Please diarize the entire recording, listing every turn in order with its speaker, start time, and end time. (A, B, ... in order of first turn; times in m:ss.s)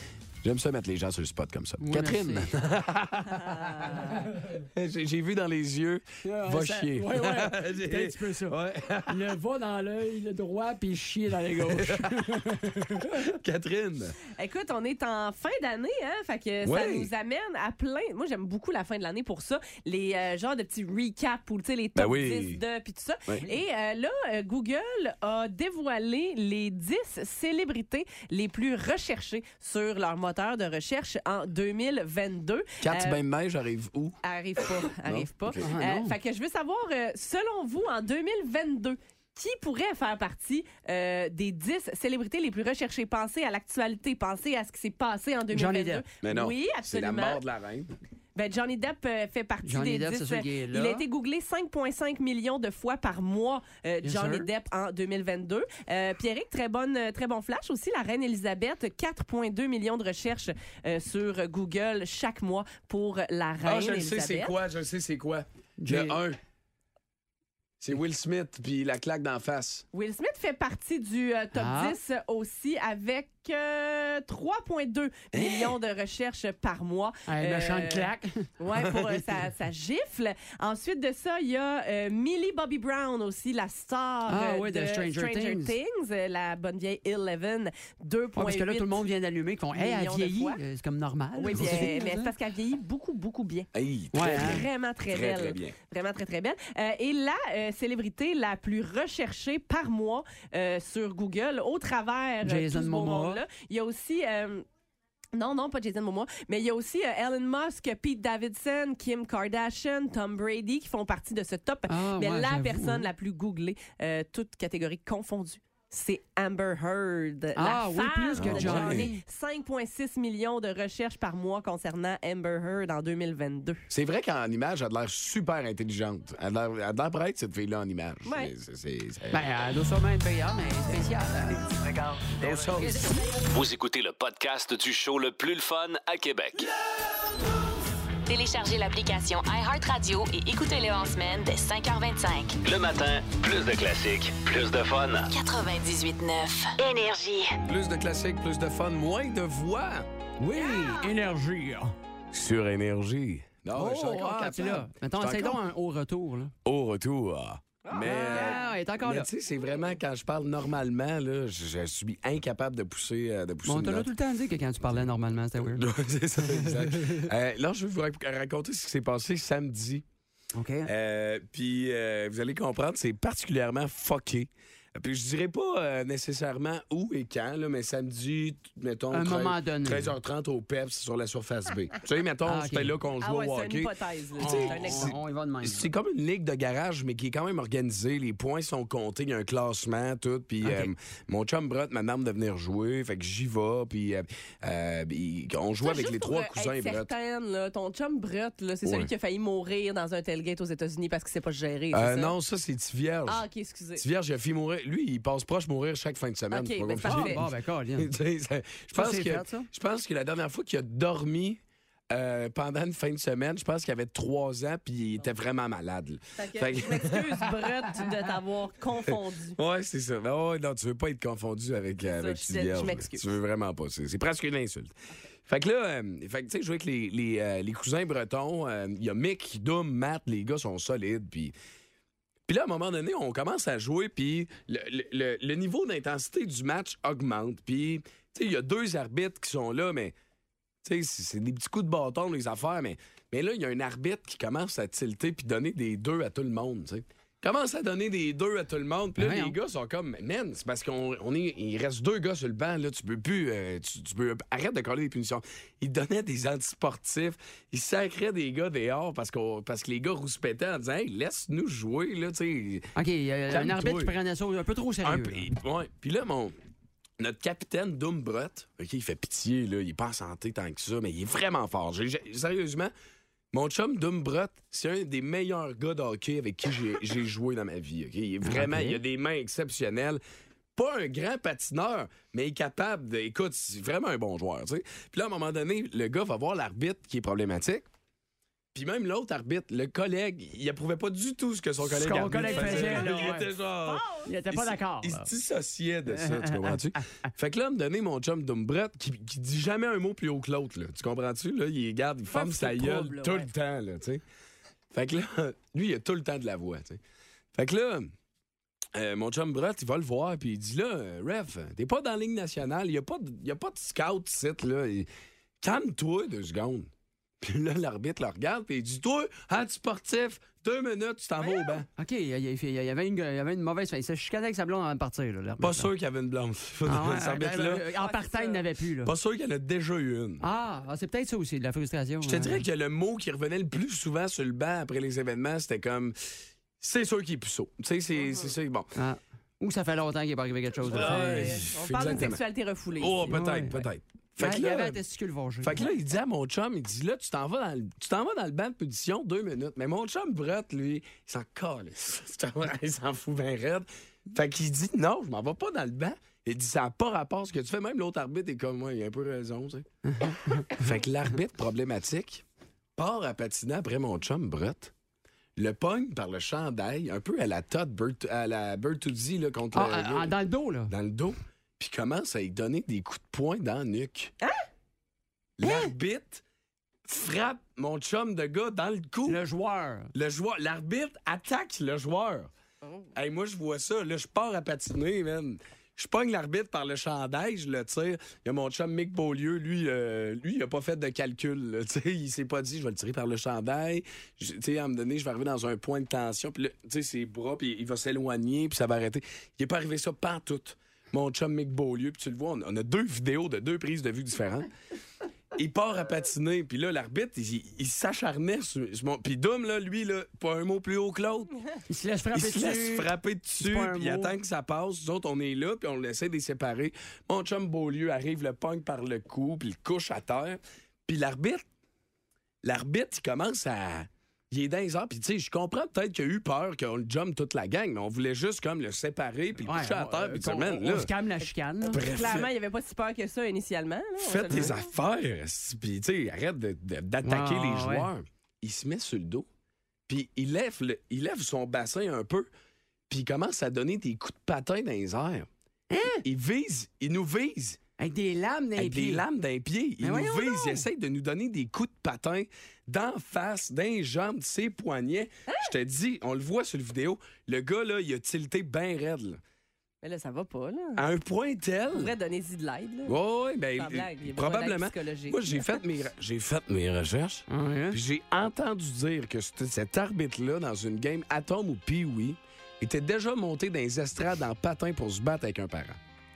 0:00.4-0:09.3 A
0:01.8-0:02.5 B
0:03.5-0:04.2 C
0:06.2-0:08.6 B
0:09.1-0:13.2 B
0:11.6-0:12.5 A
0:13.0-0:14.2 A
0:14.4-0:33.2 C
0:16.6-0:17.1 A
0:22.0-0:22.6 A
0:32.8-0:34.2 A
0:34.2-0:47.4 C
0:35.0-0:35.6 A
0:35.6-0:36.1 B
0:45.5-0:46.0 B
0:46.2-0:47.9 A
0:48.4-1:04.5 C
0:49.6-0:51.0 B
0:54.0-0:54.5 B
1:03.6-1:06.4 A
1:05.8-1:06.2 B
1:07.8-1:09.8 A
1:09.9-1:29.0 C
1:11.6-1:12.0 B
1:15.3-1:15.8 A
1:17.3-1:18.5 B
1:24.3-1:25.7 B
1:28.4-1:32.3 B
1:29.7-1:30.6 C
1:31.4-1:33.7 C
1:31.6-1:31.8 A
1:33.7-1:35.8 A
1:34.1-1:34.6 B
1:34.2-1:44.6 C
1:42.4-1:43.4 B
1:45.3-2:03.9 C
1:51.9-1:53.1 B
1:57.6-1:59.2 B
1:58.4-1:59.1 A
2:03.9-2:09.5 A
2:08.2-2:08.5 C
2:09.3-2:11.7 B
2:12.4-2:13.2 A
2:12.8-2:13.2 B
2:13.5-2:16.7 D
2:18.3-2:22.6 E
2:22.6-2:25.3 D
2:25.3-2:27.6 E
2:27.6-2:30.1 A
2:30.4-2:31.9 B
2:30.5-2:31.1 C
2:32.3-2:35.6 A
2:33.7-2:36.5 B
2:36.6-2:44.1 A
2:37.8-2:38.7 C
2:38.0-2:39.3 B
2:43.6-2:45.8 B
2:45.6-2:50.0 A
2:46.5-2:47.2 B
2:50.5-2:50.9 B
2:50.8-3:17.1 A
2:59.1-3:00.1 B
3:02.4-3:03.0 B
3:03.2-3:05.2 C
3:04.4-3:05.9 B
3:10.6-3:10.9 B
3:15.8-3:22.4 C
3:18.8-3:19.1 A
3:21.9-3:23.4 A
3:23.3-3:24.0 C
3:24.0-3:37.5 A
3:26.5-3:27.4 C
3:27.0-3:28.1 B
3:28.9-3:29.7 B
3:36.4-3:39.6 C
3:39.6-3:44.9 A
3:42.1-3:43.3 C
3:45.5-3:51.5 A
3:52.5-4:00.1 A
4:00.8-4:22.9 A
4:09.2-4:09.5 B
4:23.0-4:25.5 B
4:23.5-4:24.2 A
4:25.0-4:26.5 A
4:27.2-4:32.9 A
4:33.5-4:40.2 A
4:38.4-4:39.0 B
4:40.8-4:47.9 A
4:48.7-5:04.2 A
4:51.8-4:53.5 B
4:52.3-4:54.3 C
4:54.2-4:55.3 B
4:56.1-4:57.3 B
5:02.3-5:03.5 C
5:04.9-5:07.0 A
5:07.5-5:08.1 A
5:08.9-5:15.1 A
5:15.6-5:16.9 A
5:17.4-5:21.9 A
5:21.4-5:21.8 C
5:22.0-5:25.9 B
5:25.6-5:27.8 A
5:26.9-5:29.1 B
5:27.9-5:28.6 C
5:29.0-5:30.4 A
5:30.4-5:32.6 B
5:32.2-5:38.9 A
5:38.2-5:38.5 C
5:39.0-5:41.6 B
5:40.9-5:42.4 A
5:40.9-5:43.3 C
5:43.0-5:45.0 A
5:43.3-5:43.9 B
5:44.4-5:45.8 B
5:45.6-5:59.9 A
6:00.1-6:00.8 B
6:00.7-6:02.4 A
6:03.0-6:04.9 A
6:05.6-6:10.3 A
6:09.7-6:10.9 B
6:10.9-6:14.3 A
6:15.6-6:16.4 A
6:17.0-6:19.4 A
6:19.2-6:20.1 B
6:20.1-6:22.5 A
6:23.2-6:44.7 A
6:45.5-6:51.5 A
6:51.9-6:54.4 B
6:52.3-7:01.7 A
7:02.6-7:11.1 A
7:09.6-7:12.0 B
7:11.8-7:14.8 C
7:11.9-7:12.5 A
7:14.2-7:19.5 A
7:17.2-7:18.1 B
7:20.1-7:22.5 A
7:23.1-7:25.5 A
7:25.9-7:26.2 B
7:26.2-7:27.8 A
7:28.0-7:29.2 B
7:28.8-7:39.4 A
7:30.0-7:30.8 B
7:35.5-7:35.7 C
7:40.0-7:41.0 C
7:41.0-7:42.1 A
7:41.9-7:43.2 C
7:43.0-7:56.0 A
7:43.8-7:45.8 C
7:47.5-7:48.0 B